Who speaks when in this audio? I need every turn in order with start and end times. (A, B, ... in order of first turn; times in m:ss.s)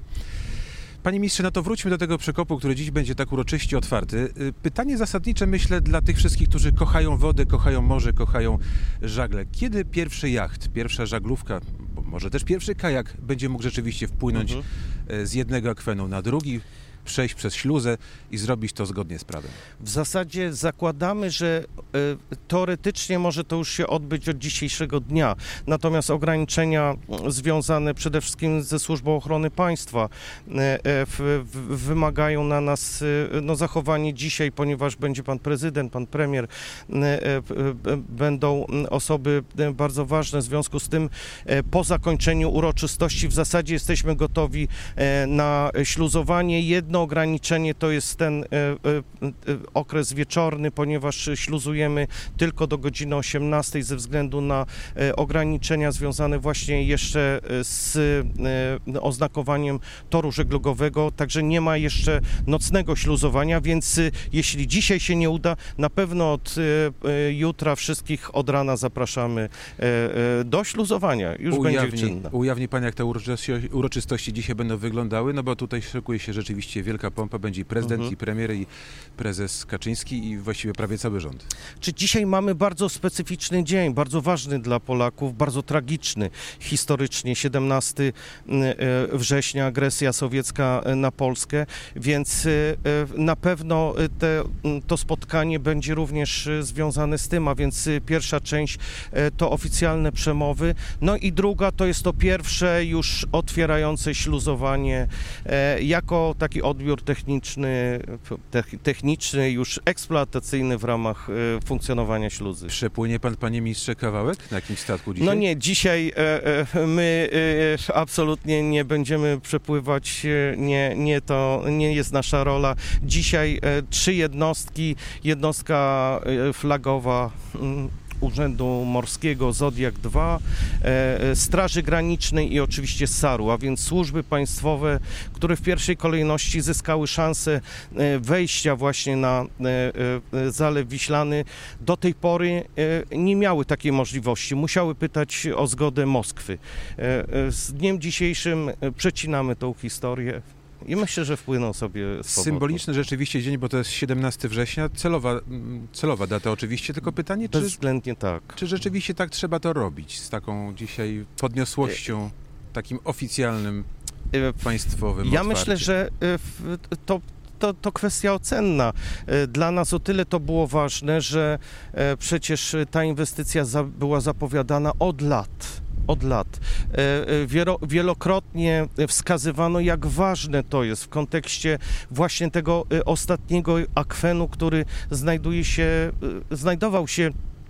0:01.0-0:19.6 A
0:14.3-0:14.6 B
0:19.8-1:12.3 B
1:11.5-1:21.5 A
1:17.8-1:18.1 B
1:21.8-1:52.7 B
1:52.7-1:55.4 A
1:55.2-2:32.8 B
2:32.3-2:37.8 A
2:37.5-2:38.6 B
2:38.6-2:43.9 A
2:44.3-3:07.3 B
2:44.6-2:45.9 A